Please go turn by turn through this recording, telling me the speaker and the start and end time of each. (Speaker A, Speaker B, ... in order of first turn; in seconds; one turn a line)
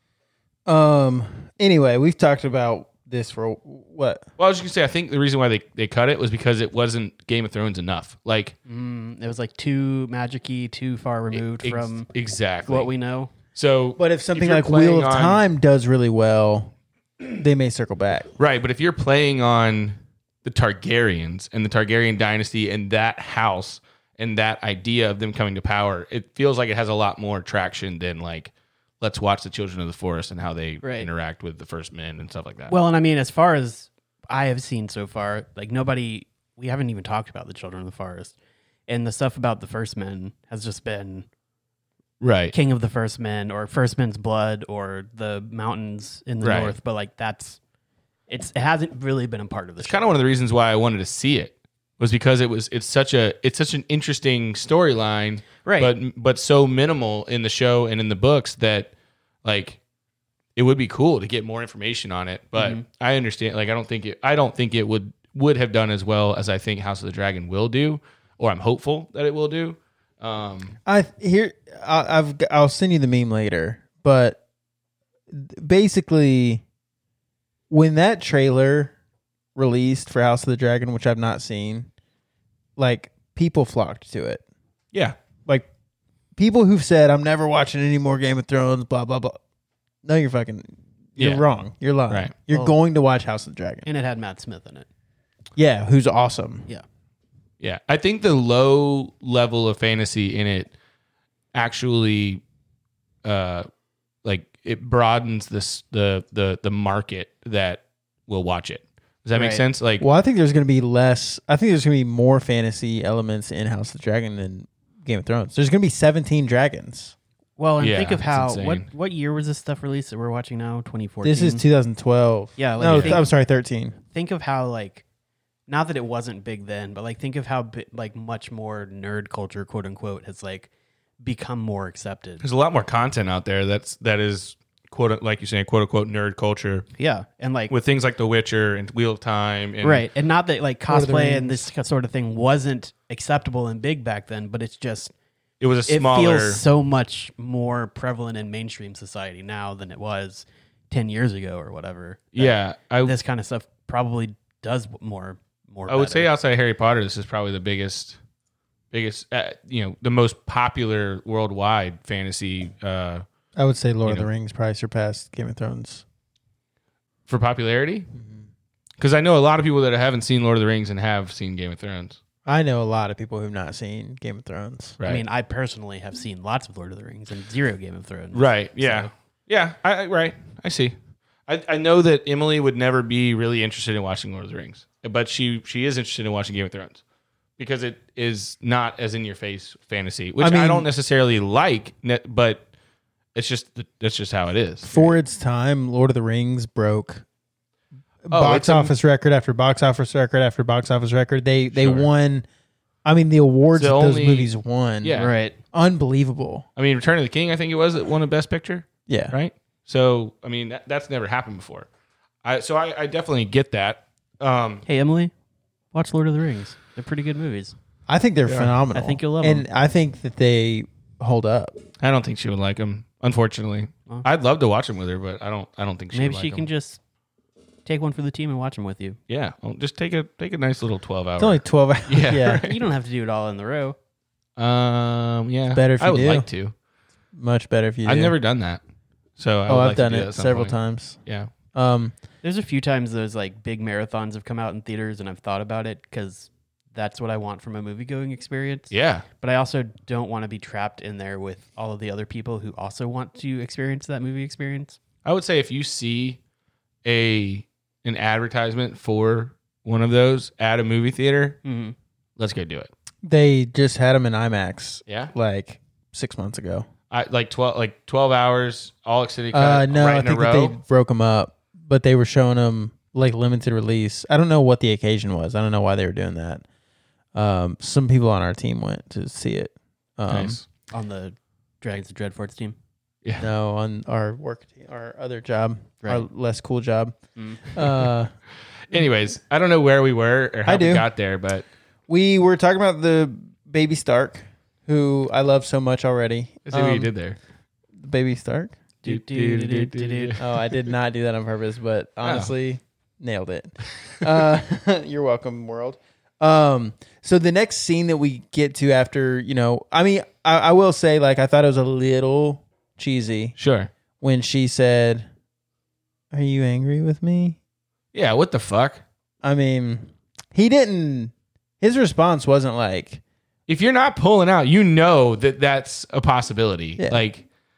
Speaker A: 0.7-4.2
Speaker B: 4.4-8.6
Speaker C: 8.7-12.1
Speaker B: 11.3-12.9
Speaker C: 12.7-13.3
Speaker B: 13.5-15.4
Speaker A: 14.0-16.7
Speaker A: 17.3-18.3
Speaker B: 18.4-32.7
Speaker C: 30.8-31.1
Speaker C: 32.7-38.3
Speaker C: 38.9-41.3
Speaker B: 42.2-42.5
Speaker C: 42.5-47.6
Speaker B: 46.4-46.8
Speaker C: 48.3-50.1
Speaker B: 49.8-58.9
Speaker C: 55.6-55.9
Speaker B: 59.4-59.8
Speaker B: 60.6-70.8
Speaker C: 62.6-62.8
Speaker A: 70.9-74.4
Speaker A: 75.3-76.6
Speaker A: 77.7-78.9
Speaker A: 79.5-81.9
Speaker A: 82.8-84.4
Speaker A: 86.4-89.4
Speaker A: 90.0-93.9
Speaker B: 91.2-91.4
Speaker C: 93.8-94.9
Speaker A: 95.6-96.7
Speaker B: 97.6-100.7
Speaker B: 101.5-102.4
Speaker B: 103.2-103.7
Speaker B: 104.2-110.0
Speaker C: 109.3-109.6
Speaker A: 110.0-117.2
Speaker C: 117.6-121.6
Speaker B: 117.8-118.9
Speaker A: 121.2-124.0
Speaker C: 122.6-123.3
Speaker B: 122.8-123.2
Speaker C: 124.1-125.0
Speaker C: 125.7-130.7
Speaker C: 131.2-132.4
Speaker B: 132.4-136.8
Speaker C: 137.0-137.7
Speaker B: 137.7-140.1
Speaker C: 139.8-145.1
Speaker A: 140.9-141.7
Speaker B: 145.6-146.6
Speaker C: 145.9-156.3
Speaker B: 152.3-153.2
Speaker B: 155.9-158.2
Speaker B: 158.9-163.2
Speaker A: 163.6-166.0
Speaker B: 167.3-168.1
Speaker A: 168.2-168.5
Speaker B: 169.0-172.2
Speaker A: 172.5-175.0
Speaker B: 175.0-175.2
Speaker C: 175.0-179.1
Speaker B: 178.3-180.9
Speaker B: 181.5-187.0
Speaker B: 187.6-192.7
Speaker A: 190.4-190.9
Speaker B: 193.3-195.2
Speaker A: 194.8-197.2
Speaker A: 198.3-202.5
Speaker B: 198.3-198.9
Speaker B: 201.7-202.1
Speaker A: 203.1-205.2
Speaker B: 203.7-204.5
Speaker B: 205.0-205.3
Speaker C: 205.2-205.6
Speaker A: 205.7-206.7
Speaker B: 206.8-211.9
Speaker A: 209.1-209.3
Speaker B: 212.4-214.8
Speaker C: 214.9-215.3
Speaker C: 215.9-217.8
Speaker A: 218.1-221.8
Speaker B: 218.5-218.7
Speaker C: 218.9-219.7
Speaker B: 222.0-226.7
Speaker C: 226.1-227.0
Speaker C: 227.8-229.2
Speaker B: 229.3-232.8
Speaker A: 231.4-232.6
Speaker C: 232.7-234.0
Speaker B: 234.6-236.7
Speaker A: 235.7-236.5
Speaker A: 237.3-238.3
Speaker B: 238.1-238.8
Speaker B: 239.4-241.5
Speaker A: 239.7-241.2
Speaker A: 241.7-242.1
Speaker C: 242.4-255.0
Speaker B: 248.9-249.3
Speaker B: 255.2-256.4
Speaker B: 257.1-261.6
Speaker C: 261.6-261.9
Speaker B: 262.4-262.9
Speaker A: 263.2-266.9
Speaker B: 265.1-265.3
Speaker B: 267.1-270.8
Speaker A: 269.5-276.6
Speaker A: 277.3-280.6
Speaker B: 280.3-280.6
Speaker C: 280.9-282.8
Speaker B: 283.2-283.5
Speaker A: 283.4-287.2
Speaker C: 287.4-287.7
Speaker A: 287.7-288.3
Speaker B: 288.9-291.7
Speaker A: 290.7-291.1
Speaker A: 292.1-297.1
Speaker B: 296.7-297.4
Speaker A: 298.0-298.8
Speaker C: 299.0-300.4
Speaker B: 299.1-300.6
Speaker A: 300.4-313.6
Speaker B: 302.2-302.5
Speaker B: 313.6-313.9
Speaker A: 314.2-315.3
Speaker A: 316.3-317.6
Speaker B: 318.1-319.0
Speaker A: 319.4-323.2
Speaker B: 323.7-327.4